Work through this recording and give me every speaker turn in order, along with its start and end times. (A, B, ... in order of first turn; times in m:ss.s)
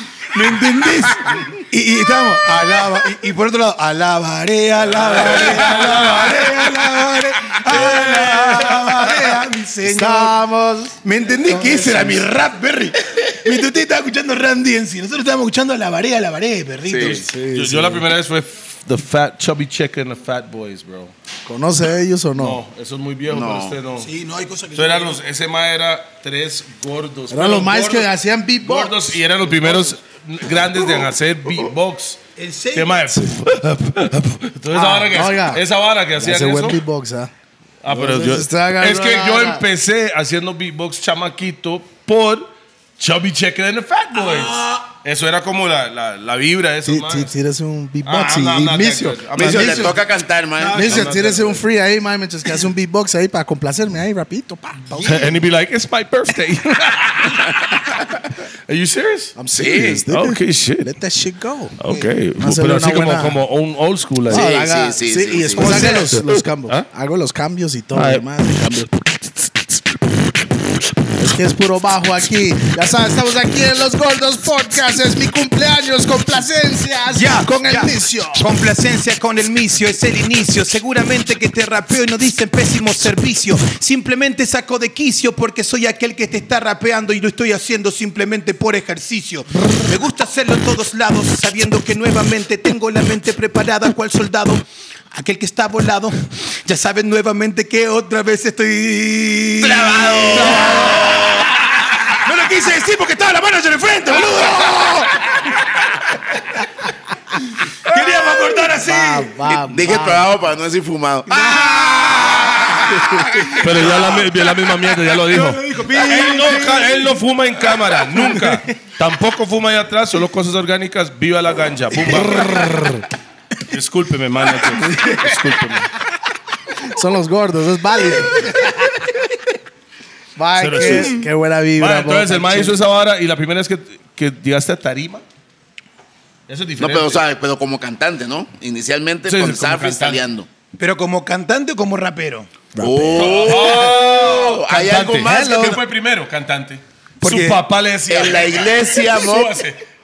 0:00.2-0:10.4 A
0:05.0-0:06.5 B
0:09.8-0:12.2 C
0:11.0-0:17.2 A
0:16.8-0:17.3 D
0:17.0-0:18.1 C
0:17.3-0:21.1 B
0:21.4-0:22.6 C
0:22.4-0:24.1 B
0:23.3-0:23.8 D
0:24.0-0:25.2 A
0:24.7-0:28.1 B
0:27.3-0:29.9 C
0:28.6-0:32.2 B
0:32.4-0:33.0 A
0:32.7-0:36.8 B
0:34.7-0:35.6 C
0:36.2-0:37.3 C
0:37.8-0:47.3 B
0:37.9-0:39.6 C
0:44.2-0:44.8 A
0:46.8-0:50.0 C
0:48.0-0:50.0 B
0:49.4-0:51.0 D
0:50.6-0:51.0 A
0:50.6-0:51.6 B
0:50.7-0:55.4 C
0:54.9-0:55.2 A
0:55.0-0:57.8 B
0:58.7-0:59.4 B
0:59.4-1:01.8 C
0:59.5-1:00.0 D
1:00.1-1:00.9 B
1:01.8-1:04.5 B
1:02.4-1:03.4 C
1:04.3-1:08.9 C
1:04.3-1:06.0 D
1:05.6-1:06.1 A
1:05.6-1:06.9 B
1:07.9-1:08.2 B
1:11.1-1:18.5 C
1:17.1-1:46.5 A
1:39.6-1:41.5 D
1:47.4-1:49.4 A
1:48.7-1:50.3 C
1:49.5-1:54.2 D
1:51.3-1:54.2 A
1:53.6-2:02.6 B
1:55.1-1:57.2 A
1:57.7-1:58.6 A
2:02.0-2:03.0 C
2:03.6-2:05.9 B
2:04.8-2:05.2 A
2:06.8-2:09.0 C
2:10.4-2:12.8 C
2:10.6-2:11.2 B
2:10.8-2:11.0 A
2:11.8-2:15.2 B
2:16.5-2:17.2 B
2:16.8-2:20.5 D
2:19.2-2:20.2 B
2:20.8-2:22.5 A
2:22.7-2:23.5 C
2:22.8-2:25.8 D
2:23.1-2:29.8 B
2:27.2-2:27.6 A
2:28.1-2:29.6 D